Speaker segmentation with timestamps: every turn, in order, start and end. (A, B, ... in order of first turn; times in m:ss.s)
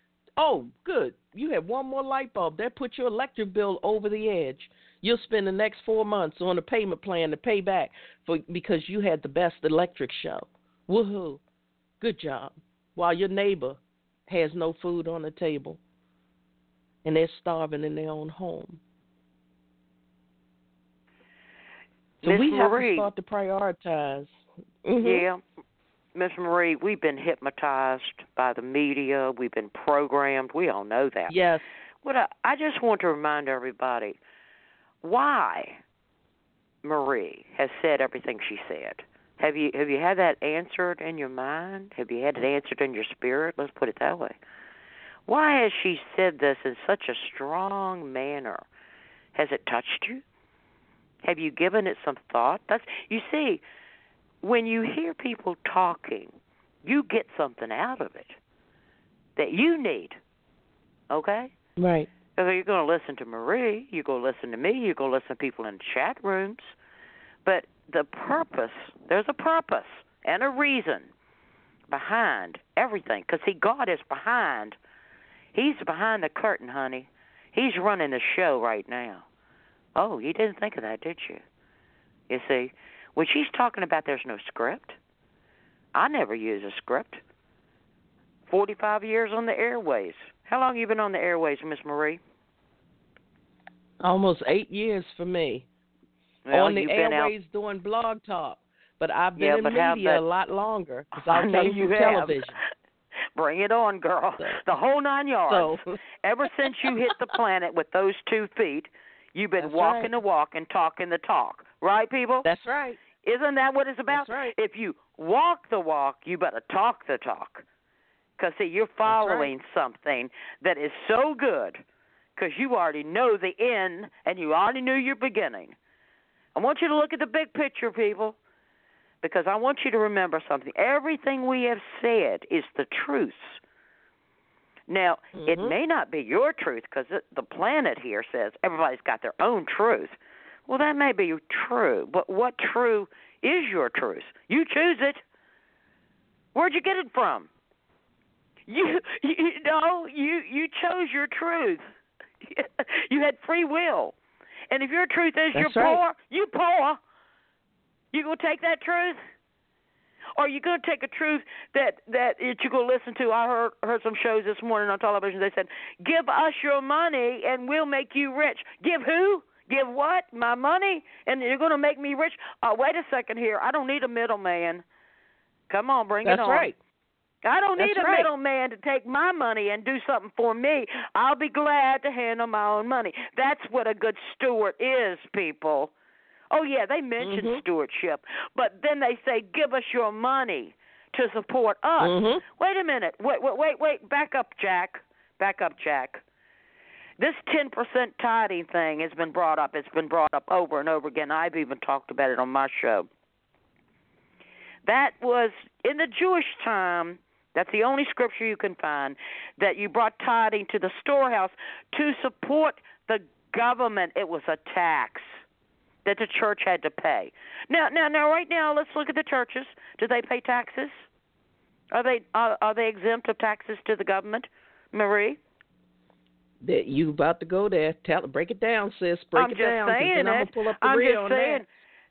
0:00.4-0:11.4 A
0:12.0-0:15.8 A
0:17.0-0:18.8 A
0:22.2-0:23.1 B
0:22.2-0:24.3 A
0:24.8-0:25.3 A
0:25.0-0:25.4 B
0:26.2-0:31.3 B
0:31.3-0:31.6 A
0:32.0-0:34.2 B
0:35.0-0:35.8 B
0:36.8-0:44.4 B
0:45.3-0:48.6 B
0:49.4-0:50.2 B
0:51.2-0:53.6 B
0:54.4-0:56.3 B
0:56.8-0:58.4 B
0:59.4-1:00.2 B
1:01.1-1:01.5 B
1:01.8-1:02.1 A
1:02.4-1:06.7 B
1:07.4-1:11.1 B
1:11.9-1:14.8 B
1:15.6-1:19.2 B
1:20.0-1:21.4 B
1:22.3-1:25.0 B
1:25.9-1:27.2 B
1:28.5-1:32.2 B
1:34.0-1:35.7 A
1:36.5-1:37.3 B
1:36.5-1:42.6 A
1:39.4-1:40.2 B
1:41.2-1:42.6 B
1:43.4-1:52.5 B
1:45.5-1:46.0 A
1:46.6-1:47.1 A
1:49.6-1:50.1 A
1:52.4-1:53.0 A
1:53.2-1:57.6 B
1:54.1-1:54.5 A
1:58.4-2:01.8 B
1:59.1-1:59.5 A
2:02.4-2:05.8 B
2:06.6-2:08.4 B
2:09.2-2:13.6 B
2:14.9-2:20.2 B
2:15.4-2:15.8 A
2:20.7-2:25.2 B
2:26.6-2:27.5 B
2:28.7-2:31.8 B
2:32.4-2:34.2 B
2:34.7-2:37.0 B
2:35.6-2:36.0 A
2:38.1-2:39.2 B
2:40.4-2:54.8 B
2:55.7-2:56.7 B
2:56.2-2:56.8 A
2:57.4-3:05.9 B
2:57.8-2:58.3 A
3:06.5-3:16.2 B
3:07.2-3:07.6 A
3:12.0-3:12.4 A
3:17.2-3:23.1 B
3:24.8-3:35.4 B
3:36.0-3:41.0 B
3:41.9-3:45.4 B
3:46.6-3:51.6 A
3:49.4-3:51.7 B